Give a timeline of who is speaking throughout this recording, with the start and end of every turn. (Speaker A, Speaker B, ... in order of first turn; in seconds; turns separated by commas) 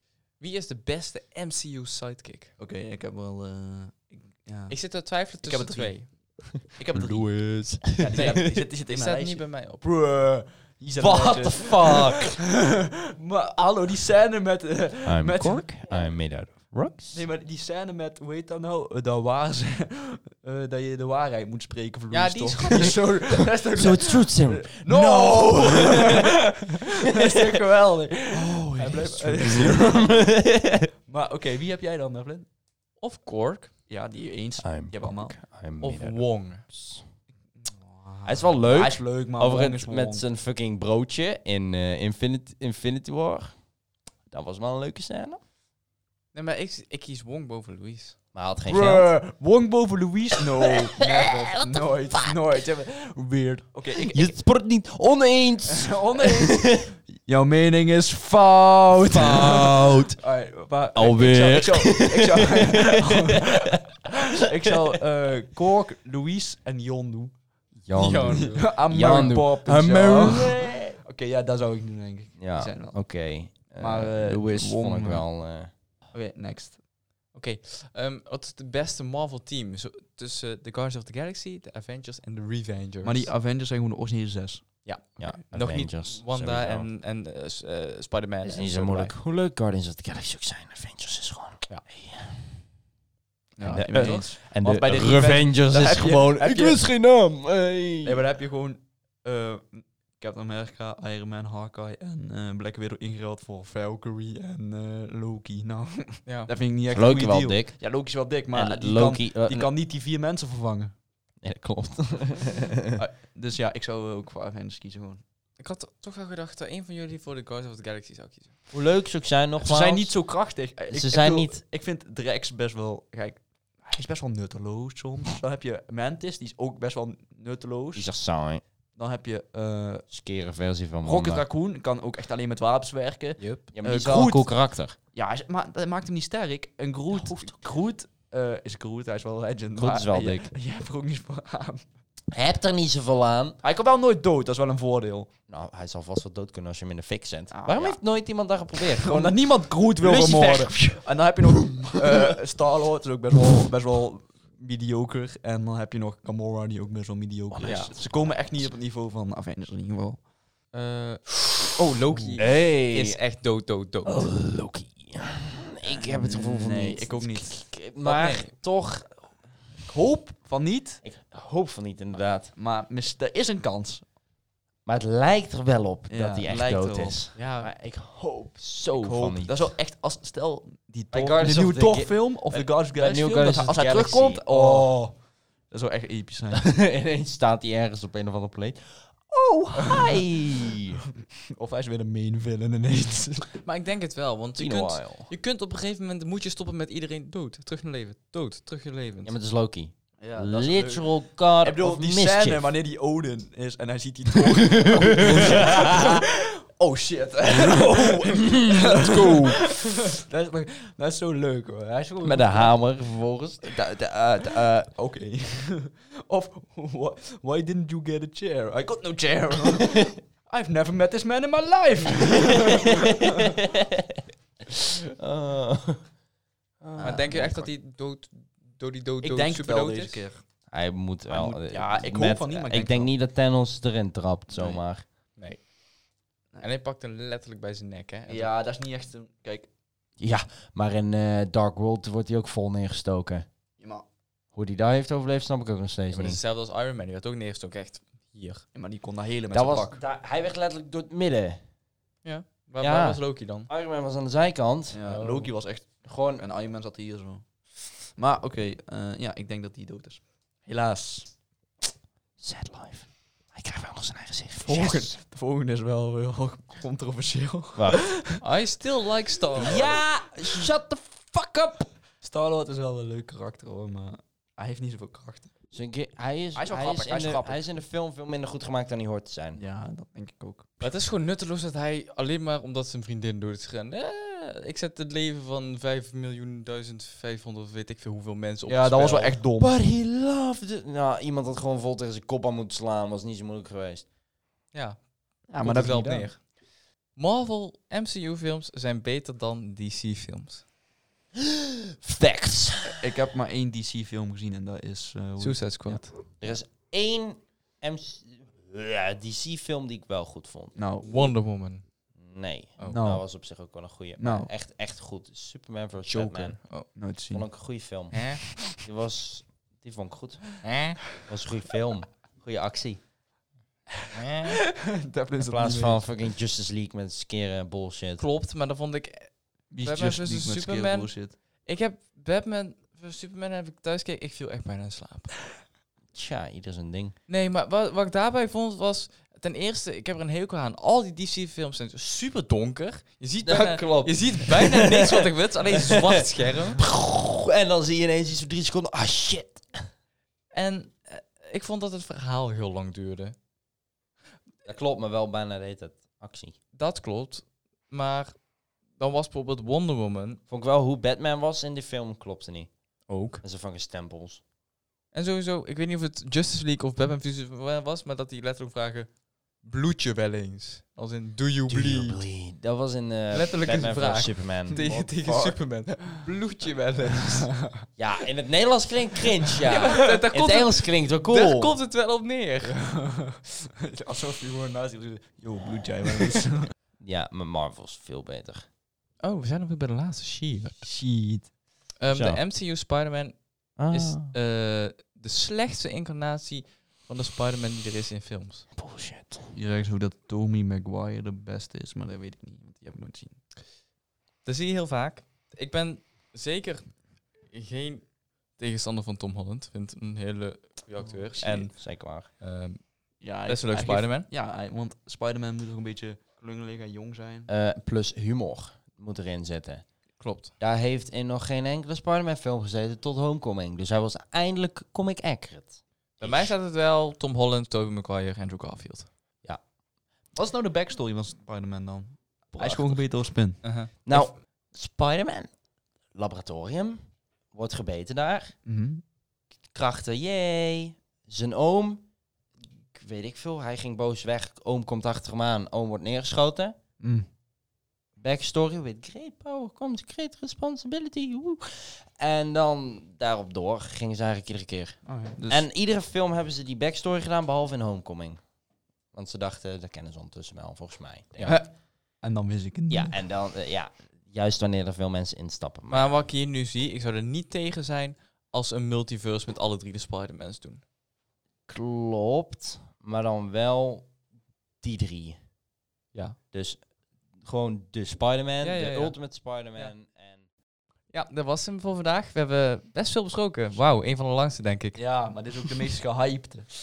Speaker A: 0.3-2.5, Speaker B: 2.6-15.8, Speaker A: 4.7-6.1, Speaker C: 6.9-8.6, Speaker A: 8.1-9.8, Speaker C: 11.0-12.4, Speaker C: 15.0-17.2, Speaker B: 17.1-30.4, Speaker A: 22.1-23.0, Speaker C: 22.7-26.3, Speaker A: 28.8-29.7, Speaker C: 29.2-30.9, Speaker B: 31.1-32.5, Speaker A: 33.0-33.7, Speaker B: 33.9-35.4, Speaker C: 34.6-37.1, Speaker A: 35.8-36.6, Speaker B: 37.5-40.2, Speaker C: 38.2-43.6, Speaker C: 44.3-45.4, Speaker A: 46.3-48.2, Speaker C: 48.3-49.1, Speaker B: 48.7-54.4, Speaker C: 51.2-52.3, Speaker C: 54.1-56.9, Speaker B: 55.7-67.3, Speaker C: 59.0-60.2, Speaker C: 60.9-63.8, Speaker C: 67.8-71.0, Speaker A: 67.9-69.3, Speaker B: 68.4-73.1, Speaker C: 72.4-75.7, Speaker B: 73.7-75.4, Speaker B: 76.1-76.8, Speaker A: 77.3-83.3, Speaker B: 83.0-84.8, Speaker A: 84.8-89.1, Speaker C: 85.2-86.9, Speaker C: 88.4-92.4, Speaker B: 93.5-96.8, Speaker C: 93.6-98.2, Speaker A: 93.6-94.2, Speaker B: 98.0-110.9, Speaker A: 106.2-106.5, Speaker C: 106.9-107.8, Speaker C: 108.5-109.7, Speaker C: 111.4-112.9, Speaker B: 112.9-115.2, Speaker A: 115.6-118.5, Speaker C: 118.7-120.2, Speaker B: 119.6-128.1, Speaker C: 120.9-121.6, Speaker C: 127.9-128.6, Speaker B: 128.9-130.1, Speaker C: 130.1-131.4, Speaker B: 131.0-141.8, Speaker A: 133.4-133.6, Speaker C: 133.7-134.9, Speaker C: 139.8-140.5, Speaker C: 142.3-143.6, Speaker B: 143.6-145.3, Speaker C: 145.5-152.3, Speaker B: 147.5-148.0, Speaker B: 148.9-160.2, Speaker C: 157.5-158.7, Speaker A: 157.6-157.9, Speaker A: 160.7-164.3, Speaker B: 162.1-162.4, Speaker C: 162.3-163.2, Speaker C: 164.0-169.2, Speaker B: 165.8-167.7, Speaker A: 168.0-168.5, Speaker B: 169.8-171.0, Speaker C: 171.0-172.5, Speaker B: 172.5-174.0, Speaker C: 174.8-179.7, Speaker B: 176.1-177.3, Speaker A: 177.3-177.7, Speaker B: 178.9-186.7, Speaker C: 181.1-185.0, Speaker C: 186.5-191.0, Speaker B: 189.8-190.2, Speaker B: 191.5-193.5, Speaker A: 193.6-199.3, Speaker C: 194.6-195.3, Speaker C: 199.2-202.6, Speaker B: 200.2-212.7, Speaker C: 204.8-206.2, Speaker C: 207.5-209.7, Speaker C: 212.2-214.9, Speaker B: 214.9-223.6, Speaker C: 219.6-220.1, Speaker C: 225.2-226.1, Speaker C: 226.8-227.7, Speaker A: 227.0-230.2, Speaker B: 229.2-230.4, Speaker C: 230.7-235.1, Speaker B: 231.3-233.1, Speaker B: 234.5-234.8, Speaker A: 235.3-235.7, Speaker A: 236.6-238.5, Speaker B: 238.3-239.7, Speaker C: 240.2-243.4, Speaker B: 243.8-244.0, Speaker C: 244.5-246.4, Speaker A: 246.1-248.6, Speaker B: 248.7-250.0, Speaker C: 249.5-251.6, Speaker A: 252.2-253.7, Speaker C: 252.8-255.1, Speaker B: 254.9-261.3, Speaker A: 255.0-255.5, Speaker C: 256.0-256.4, Speaker C: 262.4-265.1, Speaker B: 264.6-268.4, Speaker C: 267.8-268.1, Speaker A: 268.4-269.9, Speaker C: 269.6-271.9, Speaker B: 269.7-270.0, Speaker B: 272.2-275.5, Speaker C: 275.7-279.6, Speaker B: 276.5-277.6, Speaker B: 279.6-280.9, Speaker A: 280.8-289.4, Speaker B: 288.7-289.8, Speaker C: 289.6-294.1, Speaker A: 294.7-296.6, Speaker B: 295.5-296.3, Speaker A: 297.1-300.6, Speaker C: 302.0-303.0, Speaker B: 302.9-306.5, Speaker A: 305.4-306.2, Speaker C: 306.4-310.7, Speaker B: 310.7-311.3, Speaker A: 311.0-311.9, Speaker C: 312.2-323.0, Speaker B: 312.9-313.2, Speaker B: 314.2-314.5, Speaker A: 316.1-316.9, Speaker B: 316.8-317.4, Speaker A: 318.1-318.4, Speaker A: 320.6-321.0, Speaker A: 324.1-324.5, Speaker B: 324.5-326.2, Speaker C: 325.4-328.2, Speaker A: 328.2-335.4, Speaker B: 329.7-331.4, Speaker C: 336.1-337.1, Speaker A: 337.3-346.8, Speaker C: 343.4-345.3, Speaker C: 346.8-349.7, Speaker A: 350.5-353.4, Speaker C: 354.6-356.6, Speaker A: 356.7-360.4, Speaker C: 360.5-364.4, Speaker A: 363.1-363.4, Speaker A: 365.1-372.2, Speaker C: 371.7-375.2, Speaker A: 373.3-377.5, Speaker B: 374.7-376.1, Speaker B: 377.2-377.8, Speaker C: 378.0-381.8, Speaker A: 379.7-382.8, Speaker B: 382.6-386.7, Speaker C: 387.0-388.6, Speaker A: 389.2-390.9, Speaker B: 390.8-391.5, Speaker A: 392.0-398.7, Speaker C: 392.1-392.4, Speaker C: 393.8-394.3, Speaker C: 398.8-399.5, Speaker B: 399.5-403.4, Speaker A: 404.4-414.3, Speaker C: 411.2-412.3, Speaker B: 411.4-411.7, Speaker B: 413.2-417.5, Speaker C: 417.5-426.5, Speaker A: 420.2-420.5, Speaker A: 426.2-429.1, Speaker B: 430.3-433.6, Speaker C: 432.6-433.1, Speaker A: 433.6-434.3, Speaker C: 434.0-435.5, Speaker C: 436.1-438.5, Speaker B: 438.6-439.0, Speaker C: 439.7-442.1, Speaker C: 442.9-446.7, Speaker B: 447.0-447.2, Speaker C: 448.2-458.4, Speaker B: 455.1-455.6, Speaker C: 459.1-461.6, Speaker A: 461.4-461.7, Speaker B: 462.2-463.1, Speaker C: 462.9-466.1, Speaker A: 465.9-470.8, Speaker C: 471.7-474.1, Speaker C: 474.8-475.4, Speaker C: 476.5-476.8, Speaker C: 477.4-480.4, Speaker A: 478.6-479.2, Speaker A: 481.1-485.0, Speaker B: 484.9-486.7